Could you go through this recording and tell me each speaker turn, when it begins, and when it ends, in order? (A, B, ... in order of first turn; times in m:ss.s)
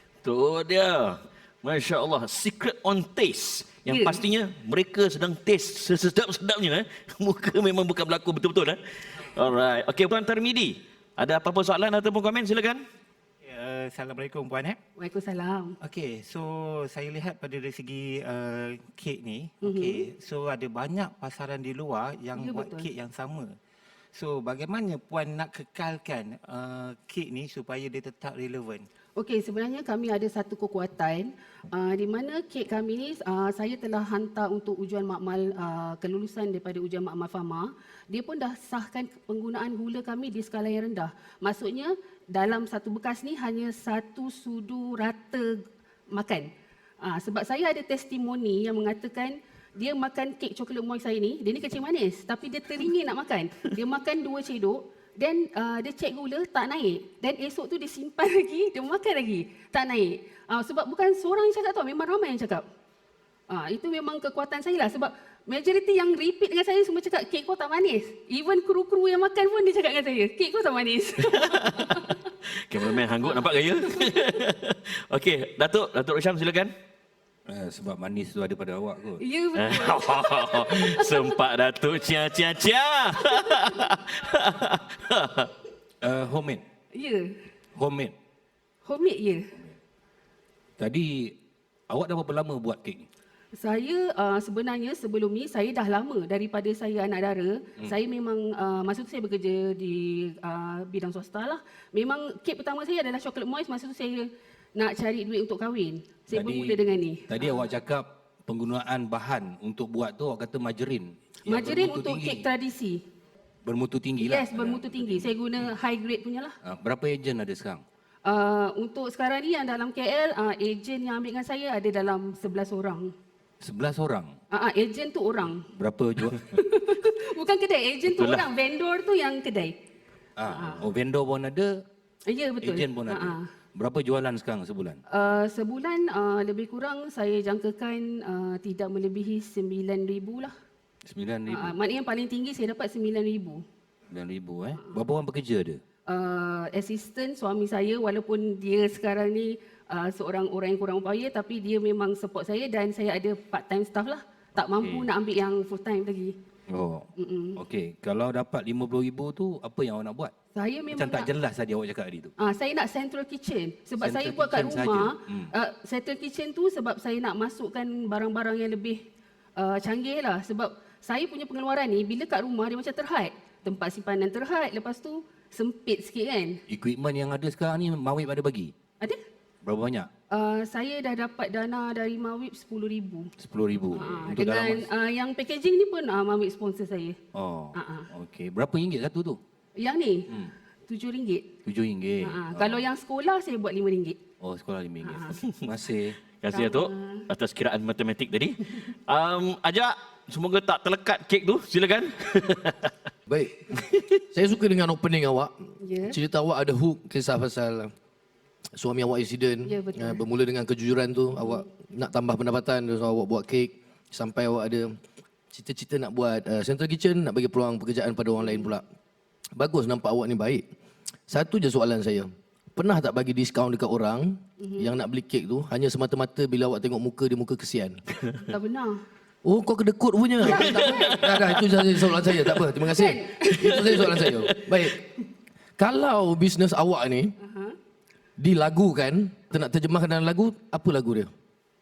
0:00.2-0:12.8 A
0:03.9-0:04.2 B
0:13.4-0:14.8 C
0:15.0-0:15.8 B
0:15.8-0:23.5 C
0:19.6-0:20.1 B
0:22.3-0:22.9 B
0:24.1-0:28.8 C
0:29.2-0:46.5 B
0:47.0-1:02.6 B
1:03.5-1:12.2 B
1:11.3-1:16.7 A
1:13.2-1:14.1 B
1:17.5-1:19.2 D
1:19.2-1:21.3 B
1:19.5-1:25.5 A
1:26.0-1:26.6 D
1:26.9-1:27.4 B
1:27.8-1:28.1 D
1:28.8-1:29.5 B
1:30.8-1:31.3 D
1:31.9-1:33.1 D
1:33.6-1:47.6 B
1:46.3-1:52.4 D
1:51.5-1:53.0 B
1:53.6-1:55.3 D
1:54.2-1:56.5 B
1:56.6-1:57.8 D
1:58.2-2:03.1 B
2:03.6-2:04.3 D
2:04.5-2:05.7 B
2:05.7-2:06.6 D
2:06.3-2:09.7 B
2:08.1-2:08.5 A
2:10.4-2:11.8 D
2:10.5-2:10.8 B
2:12.3-2:13.4 B
2:12.6-2:15.0 D
2:15.1-2:20.5 B
2:21.1-2:21.8 D
2:21.5-2:23.6 B
2:24.1-2:25.8 D
2:26.1-2:36.4 B
2:34.6-2:35.1 D
2:36.7-2:40.3 D
2:37.2-2:37.6 B
2:40.5-2:41.3 B
2:40.9-2:42.3 D
2:42.4-2:49.0 B
2:44.0-2:45.5 D
2:49.6-2:56.6 B
2:56.7-2:58.7 D
2:59.6-3:00.1 D
3:00.3-3:03.3 B
3:03.4-3:04.9 D
3:03.9-3:07.2 B
3:07.3-3:09.4 D
3:07.7-3:08.1 B
3:09.8-3:10.3 B
3:10.9-3:11.5 B
3:11.6-3:12.8 D
3:12.2-3:14.2 B
3:14.4-3:16.2 D
3:15.0-3:15.4 B
3:16.4-3:22.9 A
3:16.5-3:17.3 B
3:23.3-3:23.7 E
3:24.3-3:25.5 E
3:25.8-3:26.2 B
3:26.0-3:27.9 E
3:28.8-3:35.0 E
3:29.6-3:30.2 B
3:35.5-3:38.8 E
3:39.6-3:40.6 E
3:41.3-3:48.0 E
3:44.6-3:44.9 B
3:48.4-3:49.0 B
3:49.4-3:55.0 E
3:50.5-3:52.6 A
3:50.5-3:50.9 B
3:52.8-3:54.3 B
3:53.8-3:54.1 A
3:55.8-3:57.3 E
3:57.4-3:57.8 B
3:58.4-4:01.3 E